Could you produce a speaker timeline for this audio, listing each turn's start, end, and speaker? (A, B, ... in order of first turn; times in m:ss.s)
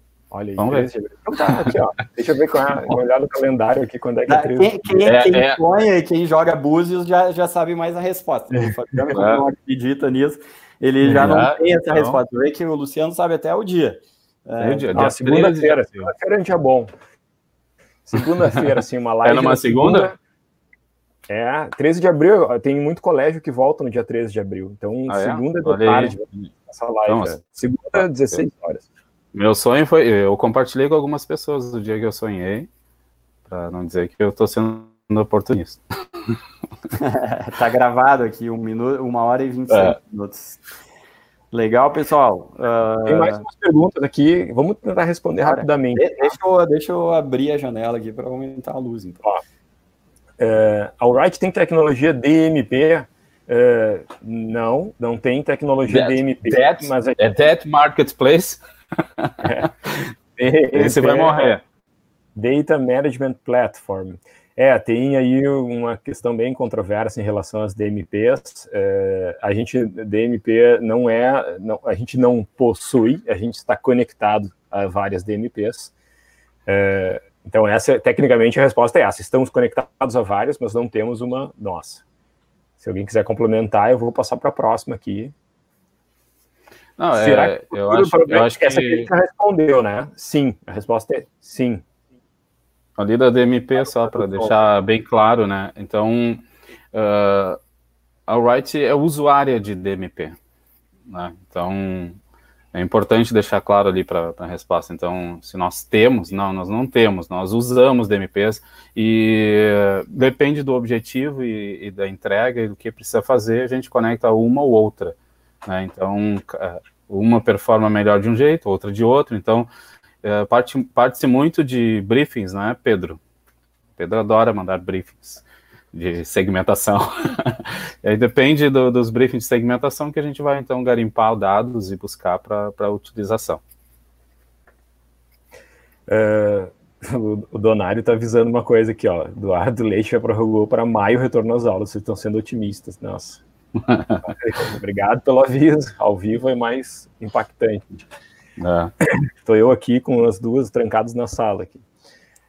0:00.3-0:04.8 A
0:00.6-0:00.9 B
0:01.4-0:01.8 B
0:04.3-0:15.1 C
0:05.0-0:05.6 B
0:09.1-0:09.4 B
0:11.0-0:12.2 B
0:14.6-0:16.1 B
0:15.0-0:16.9 A
0:18.1-0:20.2 A
0:19.2-0:20.1 B
0:21.3-0:28.9 A
0:25.1-0:26.2 B
0:27.1-0:27.4 B
0:28.0-0:28.4 B
0:29.3-0:32.7 B
0:33.5-0:36.4 B
0:36.9-0:40.6 C
0:39.7-0:40.0 B
0:41.5-0:43.4 C
0:43.1-0:46.3 A
0:45.4-0:49.2 C
0:50.4-0:57.3 A
0:55.9-0:58.6 B
0:59.2-1:00.1 B
0:59.4-0:59.7 A
1:00.4-1:01.6 A
1:00.7-1:01.6 B
1:02.4-1:15.9 A
1:16.7-1:22.0 A
1:22.8-1:25.3 A
1:27.0-1:29.1 B
1:27.1-1:31.8 A
1:33.0-1:37.6 B
1:33.8-1:34.6 A
1:38.3-1:40.4 B
1:41.1-1:42.2 B
1:42.7-1:59.7 B
2:00.2-2:03.2 B
2:04.0-2:13.6 B
2:16.1-2:23.4 A
2:23.8-2:24.3 B
2:24.3-2:28.0 A
2:28.6-2:28.9 B
2:29.1-2:31.8 A